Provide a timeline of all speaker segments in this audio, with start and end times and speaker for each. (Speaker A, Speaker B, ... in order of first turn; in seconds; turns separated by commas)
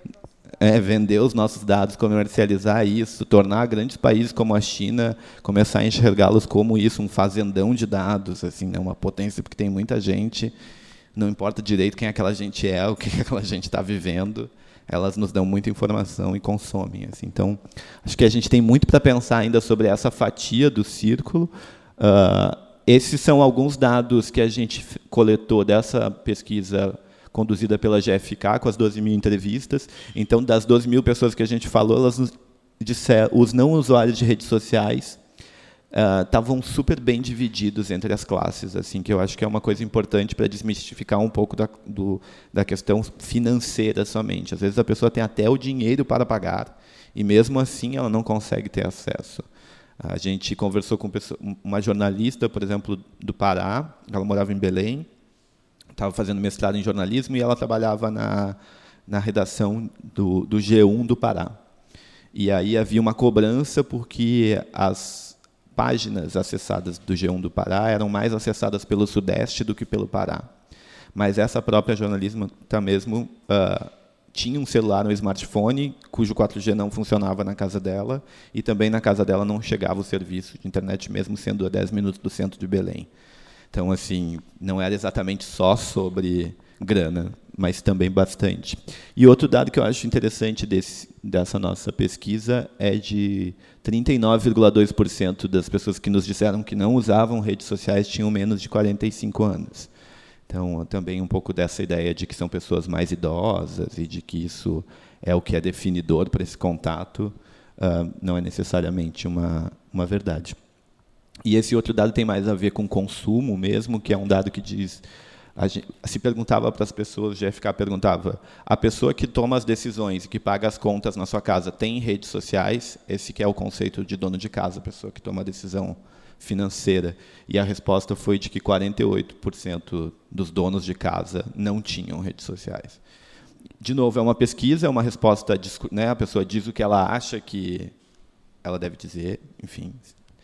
Speaker A: 0.6-10.5, Speaker A: 11.1-35.2, Speaker A: 35.9-49.5, Speaker A: 50.0-55.1, Speaker A: 55.9-61.6, Speaker A: 62.3-70.5, Speaker A: 71.1-83.1, Speaker A: 83.7-99.9, Speaker A: 100.5-110.6, Speaker A: 111.4-115.0, Speaker A: 115.5-133.0, Speaker A: 133.8-137.9, Speaker A: 138.6-140.1